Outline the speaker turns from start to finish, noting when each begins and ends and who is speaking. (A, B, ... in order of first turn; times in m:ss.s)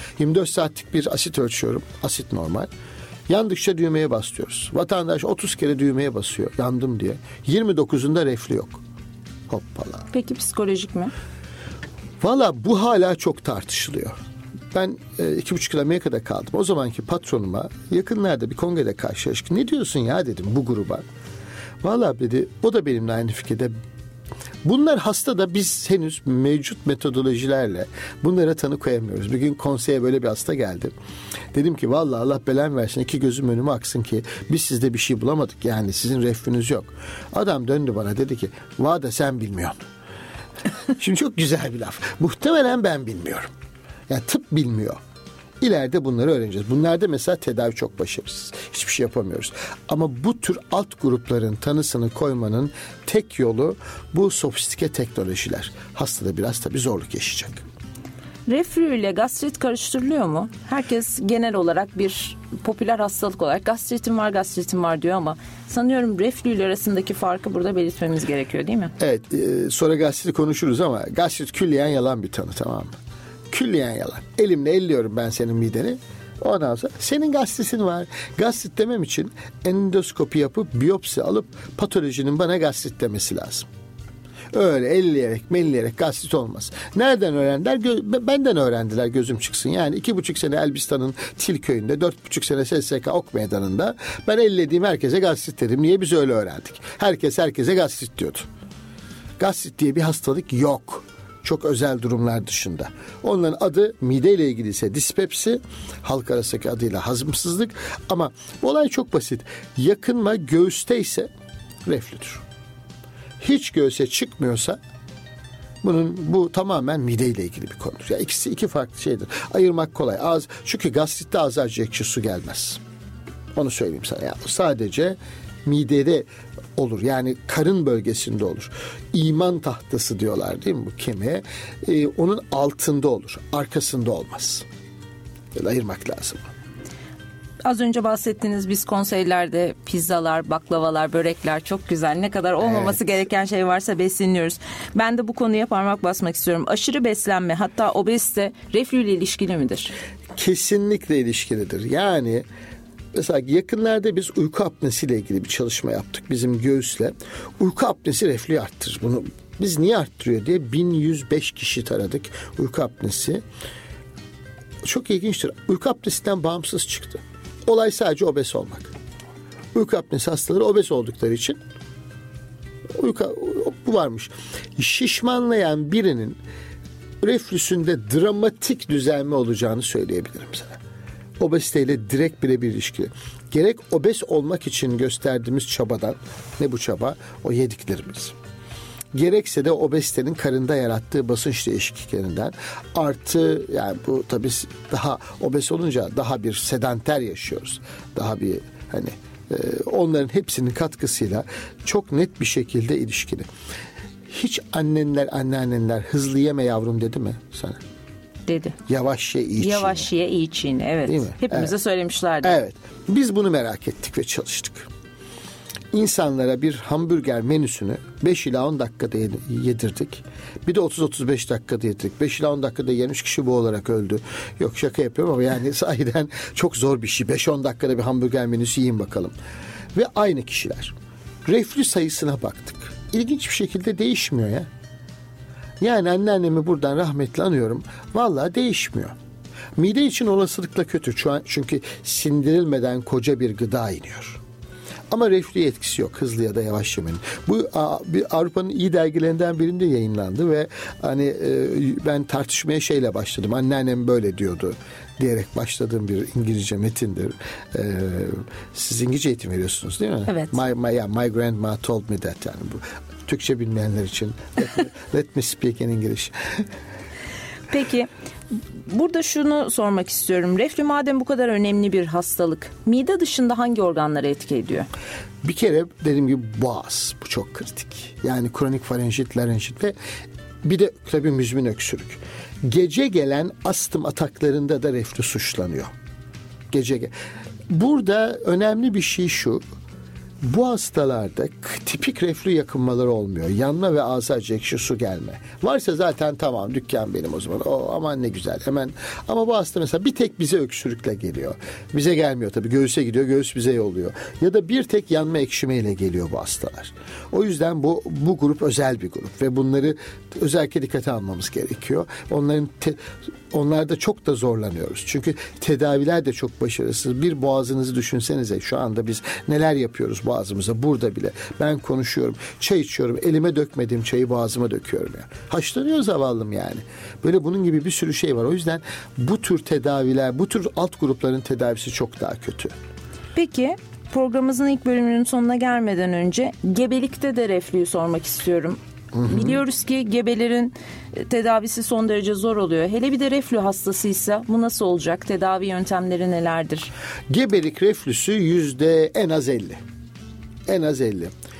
0:00.2-0:02.7 A
0:03.3-0:08.8 A
0:09.5-0:10.1 A
0:10.1-0:11.1 B
0:12.2-0:14.2 A
0:14.7-0:21.0 A
0:21.8-0:23.7 A
0:24.6-0:30.9 A
0:31.5-0:39.8 A
0:41.0-0:43.5 A
0:44.1-0:45.0 A
0:45.6-0:57.6 A
0:58.5-1:08.9 B
1:09.0-1:12.9 A
1:13.5-1:23.7 A
1:24.5-1:38.4 A
1:39.4-1:51.3 A
1:51.8-1:52.4 A
1:53.4-1:54.8 A
1:55.8-2:02.8 A
2:03.6-2:14.6 A
2:15.5-2:16.4 A
2:17.6-2:29.9 B
2:22.6-2:23.0 A
2:30.4-2:32.4 A
2:33.1-2:43.4 A
2:44.8-2:48.9 A
2:49.7-2:51.6 A
2:52.9-2:56.4 A
2:57.2-3:00.8 A
3:01.4-3:08.3 A
3:09.1-3:23.5 A
3:24.3-3:27.8 A
3:28.5-3:28.8 B
3:28.9-3:30.1 A
3:29.6-3:32.6 B
3:31.1-3:31.7 A
3:32.4-3:34.9 A
3:35.9-3:49.3 A
3:49.9-3:50.9 A
3:51.4-3:54.7 A
3:55.8-3:59.1 A
3:59.8-4:04.4 A
4:05.1-4:26.6 A
4:20.3-4:20.6 B
4:27.7-4:28.1 B
4:28.9-4:34.9 B
4:35.4-4:39.9 A
4:40.6-4:45.9 A
4:46.7-4:47.1 A
4:47.7-4:49.6 A
4:50.4-5:32.7 A
5:33.3-5:46.9 B
5:39.1-5:39.6 A
5:47.3-5:49.8 A
5:50.7-5:51.3 A